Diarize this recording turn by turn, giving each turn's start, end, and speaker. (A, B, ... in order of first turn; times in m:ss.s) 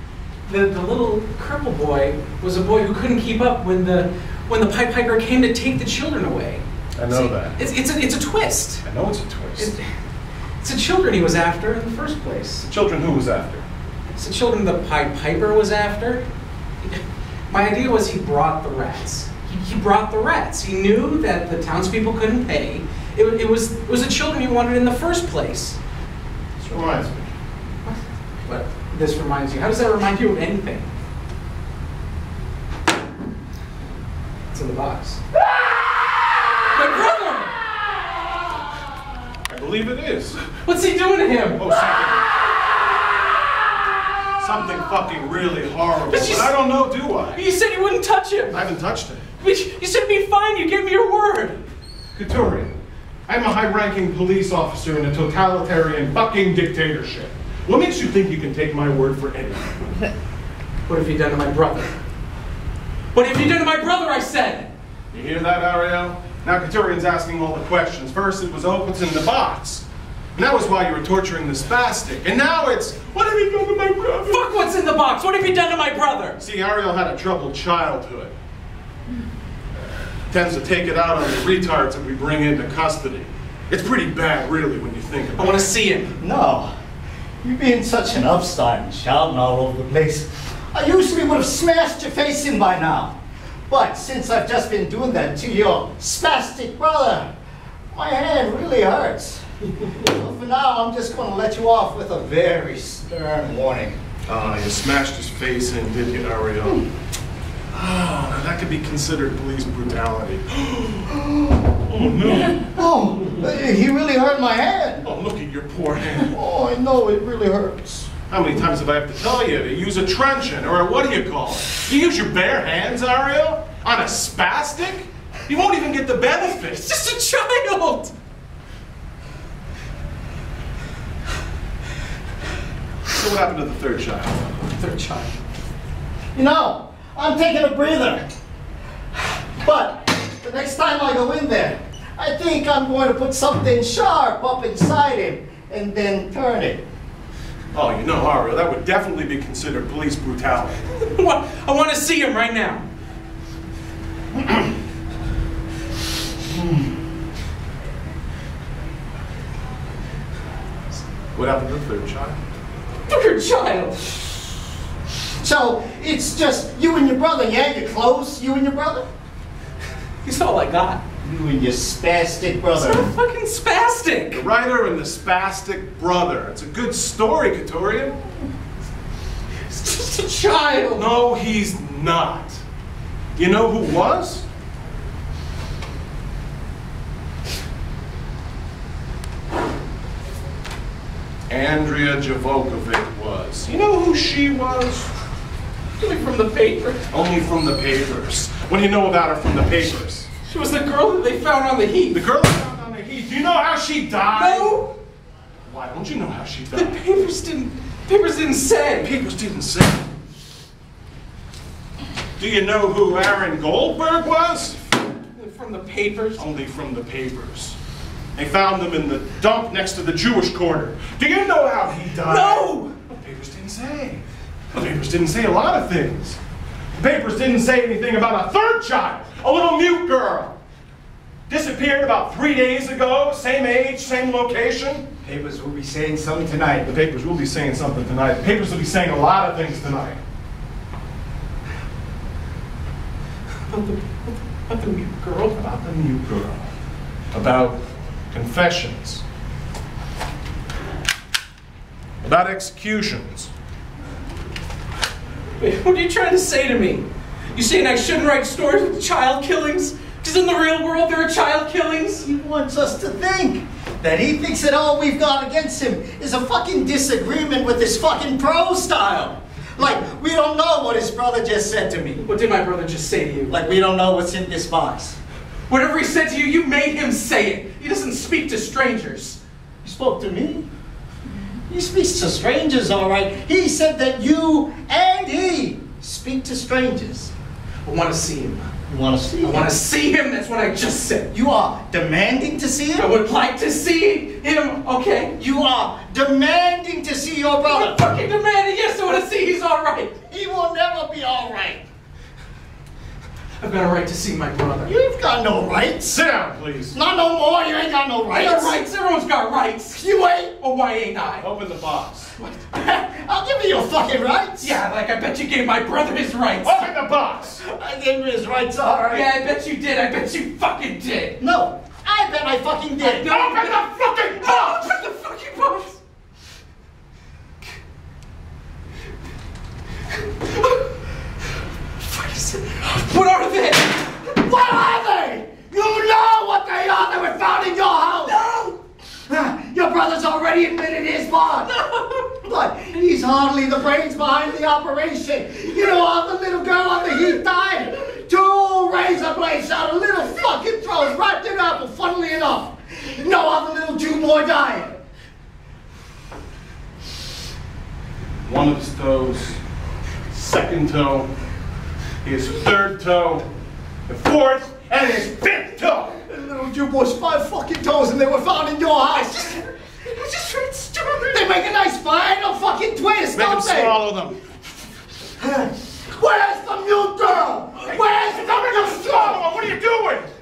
0:00.5-0:08.8 A
0:07.0-0:07.6 B
0:08.8-0:09.7 B
0:10.6-0:12.7 A
0:12.7-0:13.6 B
0:14.2-0:16.2 A
0:16.8-0:25.8 A
0:26.6-0:27.3 B
0:27.9-0:30.9 A
0:34.5-0:35.2 A
0:36.7-0:37.5 A
0:39.5-0:40.4 B
0:40.5-0:41.6 A
0:41.6-0:42.2 B
0:44.4-0:47.4 B
0:46.1-0:46.5 A
0:47.3-0:48.6 A
0:48.5-0:49.2 B
0:49.4-0:51.6 A
0:52.2-0:52.7 B
0:53.3-1:00.0 B
1:00.9-1:01.9 A
1:03.1-1:04.7 A
1:05.1-1:09.8 B
1:10.4-1:14.6 B
1:14.3-1:16.4 A
1:16.4-1:18.3 B
1:20.3-1:25.7 B
1:25.4-1:26.2 A
1:26.2-1:26.7 C
1:27.4-1:33.2 C
1:33.7-1:37.3 C
1:37.9-1:44.0 C
1:44.3-1:46.9 B
1:47.7-1:52.8 B
1:52.0-1:55.1 C
1:55.0-1:56.4 B
1:56.3-1:58.1 C
1:58.3-2:06.9 B
2:06.6-2:08.1 A
2:13.1-2:14.6 B
2:14.7-2:15.4 A
2:16.3-2:18.2 C
2:19.6-2:26.8 C
2:27.7-2:30.8 B
2:30.9-2:32.9 A
2:41.4-2:42.4 B
2:43.1-2:44.3 A
2:45.4-2:49.1 C
2:50.2-2:51.0 A
2:51.2-2:53.1 C
2:52.8-2:54.4 A
2:54.4-2:58.2 B
2:59.7-3:01.1 A
3:01.0-3:02.6 B
3:03.4-3:04.5 B
3:11.5-3:15.1 B
3:16.0-3:17.0 A
3:17.1-3:20.3 B
3:20.4-3:22.2 A
3:22.1-3:24.8 B
3:24.3-3:25.0 A
3:25.7-3:27.0 B
3:26.7-3:29.1 A
3:29.0-3:30.0 B
3:32.4-3:34.9 B
3:35.3-3:36.4 A
3:36.4-3:37.8 B
3:38.4-3:46.4 B
3:42.2-3:43.0 A
3:47.0-3:50.6 B
3:51.5-3:55.0 B
3:55.2-3:56.9 C
3:56.8-4:00.2 B
4:03.7-4:05.6 A
4:05.6-4:06.7 B
4:07.3-4:07.8 B
4:08.3-4:09.2 B
4:12.2-4:13.5 B
4:15.6-4:22.3 A
4:22.2-4:32.2 C
4:32.2-4:33.6 A
4:33.5-4:35.2 C
4:35.7-4:39.4 A
4:39.8-4:40.7 C
4:41.7-4:47.3 C
4:47.8-4:48.7 A
4:48.9-4:49.7 C
4:49.4-4:51.3 A
4:51.3-4:53.1 C
4:53.0-4:55.4 A
4:55.4-4:58.0 C
4:57.6-5:00.2 A
5:00.3-5:01.8 C
5:03.6-5:04.9 A
5:04.9-5:06.2 C
5:06.0-5:07.0 B
5:06.9-5:08.8 C
5:08.3-5:11.5 A
5:10.0-5:10.5 C
5:11.4-5:12.3 B
5:12.4-5:12.6 A
5:12.7-5:14.8 C
5:14.6-5:16.9 A
5:16.6-5:17.6 B
5:17.6-5:19.3 C
5:19.1-5:21.4 A
5:21.4-5:23.3 C
5:23.0-5:26.0 A
5:23.2-5:24.9 B
5:30.4-5:30.8 A
5:32.0-5:34.0 A
5:34.3-5:38.4 C
5:38.3-5:38.8 A
5:39.3-5:41.7 C
5:41.7-5:42.3 A
5:42.4-5:54.9 C
5:58.4-5:59.6 B
6:00.3-6:01.3 B
6:02.2-6:03.5 B
6:04.1-6:06.2 B
6:06.2-6:09.6 C
6:10.2-6:11.4 A
6:10.9-6:14.0 C
6:13.3-6:14.4 B
6:15.4-6:19.5 C
6:17.9-6:20.3 B